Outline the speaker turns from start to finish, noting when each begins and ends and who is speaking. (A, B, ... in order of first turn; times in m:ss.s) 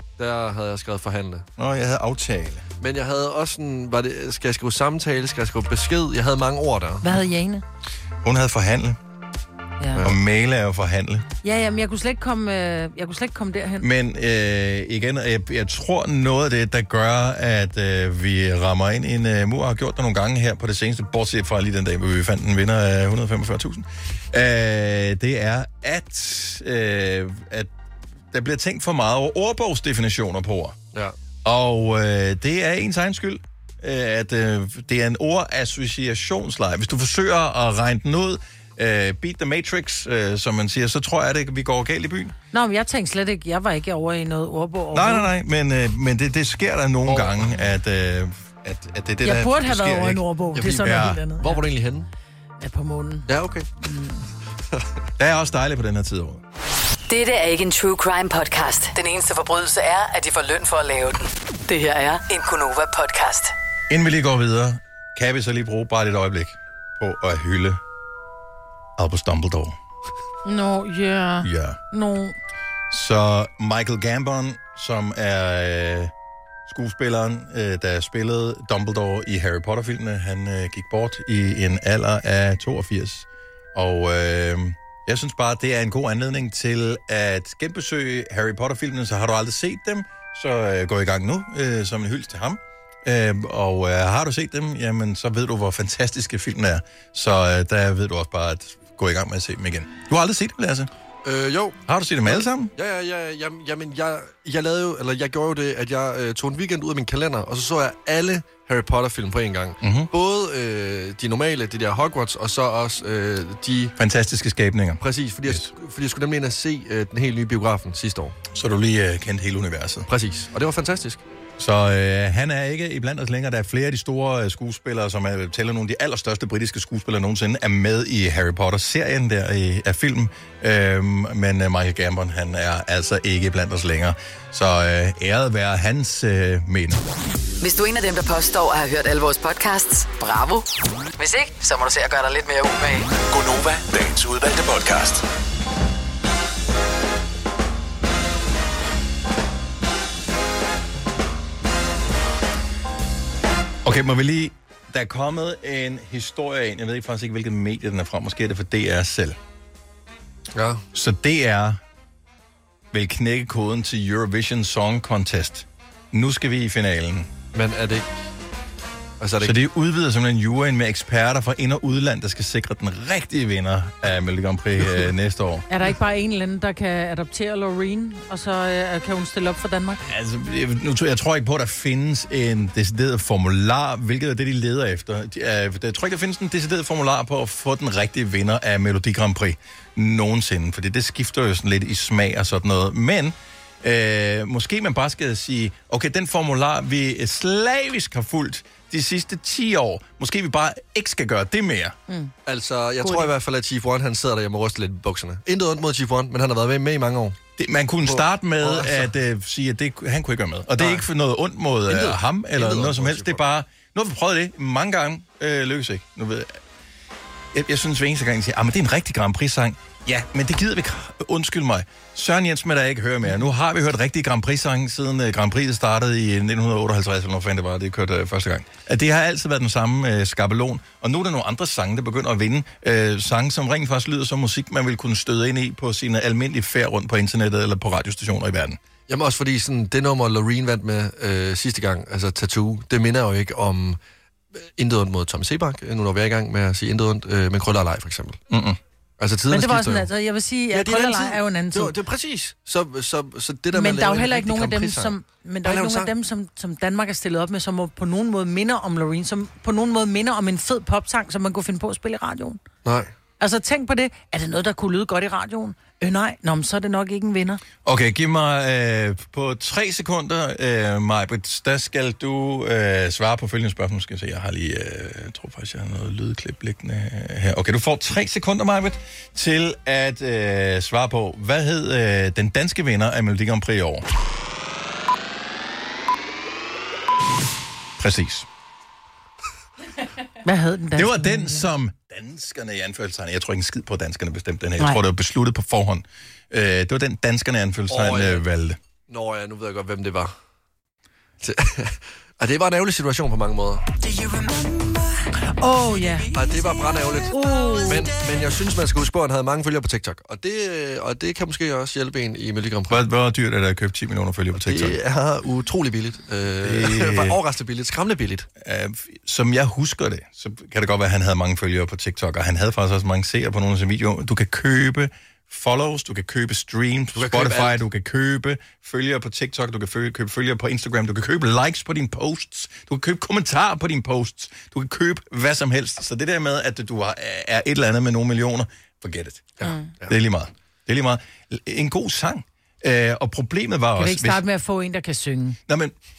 0:00.2-0:01.4 A
0:01.6-0:02.6 B
0:02.8-0:07.1 A
0:07.0-0:07.6 C
0:08.2-0:09.0 B
0:10.0-0:11.2 B
0:11.4-0:13.9 C
0:13.8-0:27.7 B
0:28.3-0:30.8 B
0:31.4-0:42.4 B
0:42.5-0:45.3 C
0:44.9-0:50.2 B
0:47.1-0:47.4 A
0:49.2-0:51.6 C
0:50.6-0:52.1 A
0:50.8-0:51.2 B
0:52.6-0:53.3 C
0:53.3-0:53.7 A
0:53.8-0:54.2 C
0:55.2-0:56.4 B
0:57.1-1:03.5 D
1:03.9-1:07.8 B
1:09.0-1:09.8 B
1:10.4-1:12.4 C
1:11.4-1:11.8 B
1:12.9-1:16.1 B
1:16.7-1:40.9 B
1:41.2-1:53.9 A
1:41.9-1:42.7 B
1:49.8-1:50.1 B
1:54.0-1:55.7 B
1:55.0-1:58.4 A
1:58.5-2:00.1 B
2:00.1-2:01.2 A
2:01.6-2:17.0 B
2:17.6-2:23.1 D
2:23.3-2:25.2 E
2:33.8-2:39.4 B
2:40.6-2:40.8 A
2:40.9-2:41.8 B
2:42.9-2:47.3 B
2:47.5-2:48.1 A
2:49.2-2:49.6 A
2:49.4-2:55.7 B
2:55.7-3:00.0 C
3:00.1-3:22.0 B
3:22.1-3:22.3 C
3:22.4-3:27.4 A
3:23.0-3:23.3 C
3:27.6-3:36.6 B
3:28.0-3:29.1 A
3:30.8-3:31.1 A
3:31.9-3:33.4 A
3:37.5-3:58.8 B
3:59.1-4:04.0 A
4:04.6-4:08.4 A
4:08.5-4:08.8 B
4:09.2-4:10.1 A
4:09.5-4:11.9 C
4:10.7-4:16.1 A
4:13.7-4:22.6 C
4:22.8-4:23.1 A
4:23.4-4:27.6 C
4:27.8-4:44.0 B
4:48.0-4:48.5 B
4:50.4-4:51.7 C
4:51.0-4:58.8 B
4:57.9-4:58.4 A
4:59.1-5:00.3 A
5:01.4-5:03.9 A
5:05.5-5:06.3 C
5:06.3-5:13.0 A
5:07.3-5:08.0 C
5:12.9-5:15.0 B
5:14.5-5:18.5 A
5:16.6-5:17.4 B
5:18.6-5:39.5 B
5:27.1-5:27.8 A
5:39.6-5:40.1 A
5:39.6-5:39.9 C
5:40.1-5:44.4 B
5:44.0-5:45.6 C
5:45.7-5:46.0 B